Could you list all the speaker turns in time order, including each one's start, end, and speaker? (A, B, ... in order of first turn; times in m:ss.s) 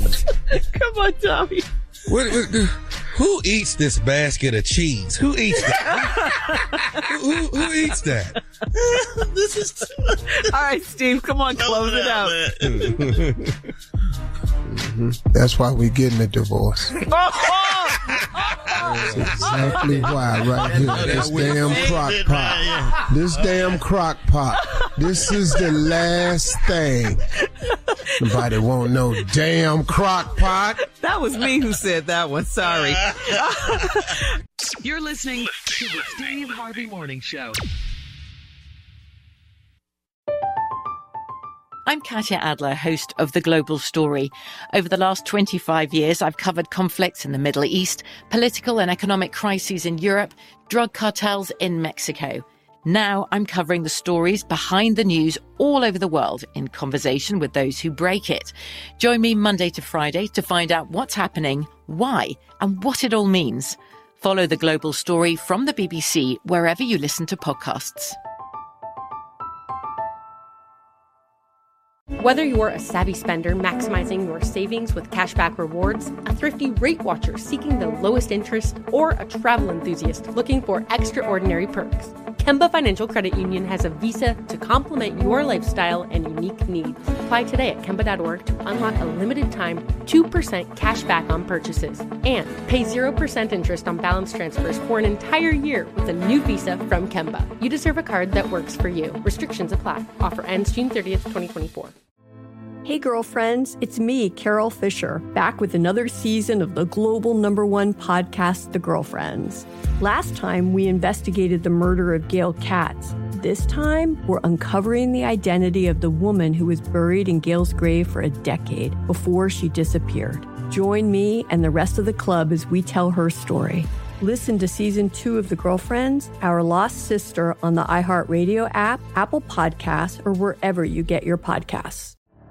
0:00.5-0:01.6 A
0:02.1-0:06.3 B
0:05.6-0:07.0 A
0:07.0-0:08.4 B
0:08.8-0:10.4 C
0:10.3-0:12.4 A
0:11.5-0:12.8 C
0:12.6-0:13.5 B
0:14.7-0:17.0 D
0:17.1-0:21.9 A
0:18.8-0:19.7 B
0:19.0-0:27.2 D
0:20.6-0:22.0 B
0:21.8-0:23.8 C
0:27.7-0:28.4 A
0:28.2-0:30.8 D
0:31.0-0:34.3 A
0:32.7-0:33.2 C
0:35.0-0:35.5 A
0:41.8-1:08.2 E
1:12.2-1:41.9 F
1:42.8-2:12.1 G